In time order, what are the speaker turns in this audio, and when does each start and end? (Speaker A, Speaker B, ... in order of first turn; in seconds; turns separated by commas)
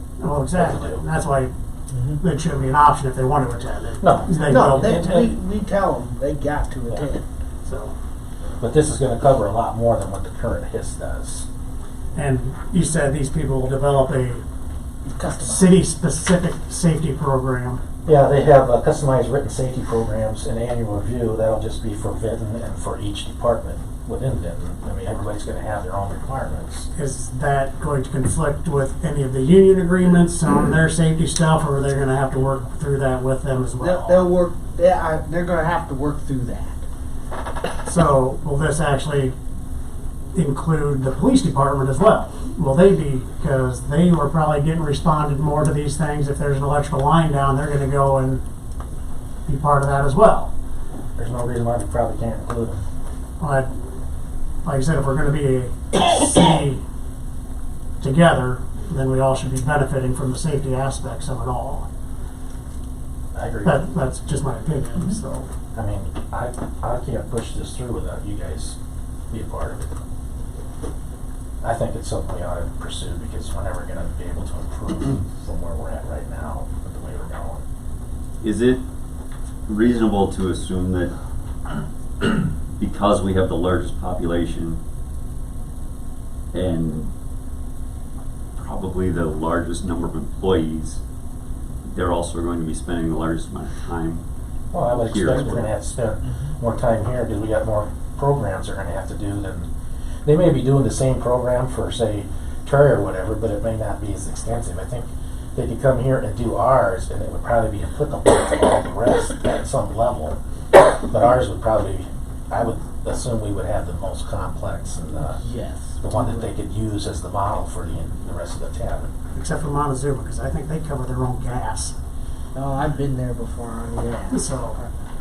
Speaker A: 0.2-1.5, Speaker B: 0.5-1.0, Speaker A: 2.2-5.3, Speaker B: 4.0-5.3, Speaker C: 4.5-7.2, Speaker A: 7.6-7.9, Speaker B: 8.6-11.5, Speaker A: 12.1-14.4, Speaker C: 15.1-15.8, Speaker A: 15.4-17.8, Speaker B: 18.0-26.9, Speaker A: 26.9-34.3, Speaker C: 33.8-36.8, Speaker A: 37.8-39.3, Speaker A: 40.3-48.4, Speaker A: 49.5-50.5, Speaker B: 51.2-52.8, Speaker A: 53.4-53.7, Speaker A: 54.6-56.8, Speaker A: 58.0-61.9, Speaker B: 63.3-63.8, Speaker A: 63.6-65.5, Speaker B: 65.7-68.8, Speaker B: 69.3-69.9, Speaker B: 71.6-77.6, Speaker D: 78.4-78.8, Speaker D: 79.7-81.1, Speaker D: 82.2-84.8, Speaker D: 86.5-87.1, Speaker D: 88.6-91.0, Speaker D: 91.8-94.2, Speaker B: 94.7-99.7, Speaker D: 95.0-95.6, Speaker B: 100.2-115.4, Speaker C: 115.3-116.5, Speaker B: 116.0-119.1, Speaker A: 119.3-122.0, Speaker C: 122.5-124.8, Speaker A: 124.3-124.8